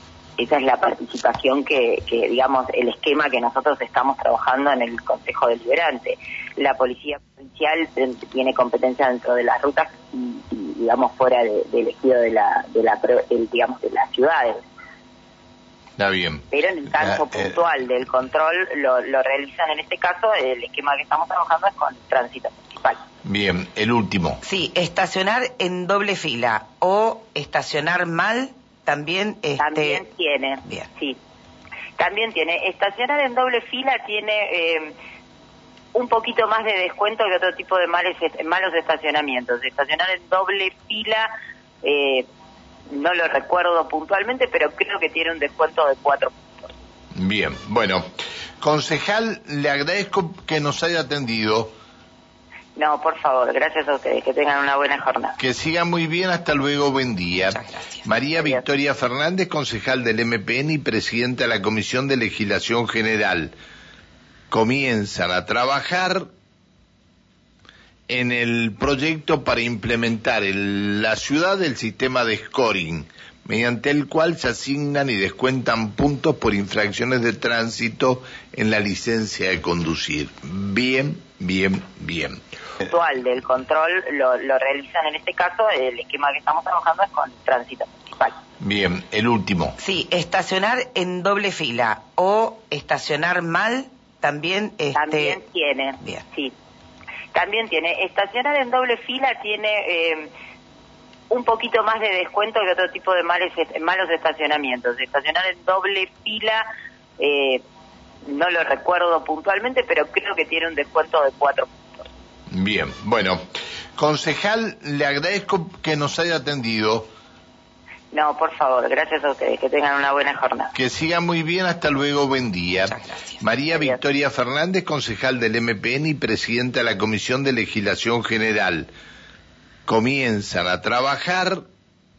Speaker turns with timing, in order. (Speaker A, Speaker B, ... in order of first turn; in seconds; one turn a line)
Speaker A: 0.4-14.6
Speaker B: 16.0-17.5
Speaker A: 16.5-23.0
Speaker B: 23.2-24.4
Speaker C: 24.4-30.0
Speaker A: 29.6-31.2
Speaker A: 32.0-35.0
Speaker A: 36.0-41.3
Speaker A: 41.8-42.3
Speaker A: 42.9-46.7
Speaker B: 47.1-48.1
Speaker B: 48.6-51.7
Speaker A: 52.8-55.4
Speaker B: 55.4-63.5
Speaker C: 57.5-58.1
Speaker A: 58.3-58.6
Speaker B: 64.5-66.3
Speaker B: 68.1-82.4
Speaker A: 82.9-88.4
Speaker B: 88.6-89.8
Speaker C: 89.8-95.4
Speaker A: 95.0-96.5
Speaker A: 97.3-100.3
Speaker A: 101.3-106.7
Speaker A: 107.2-107.6
Speaker A: 108.3-111.7
Speaker B: 112.5-113.4
Speaker B: 114.0-117.1
Speaker A: 118.1-120.7
Speaker B: 120.7-128.9
Speaker C: 122.8-123.4
Speaker A: 123.7-124.0
Speaker B: 129.9-131.6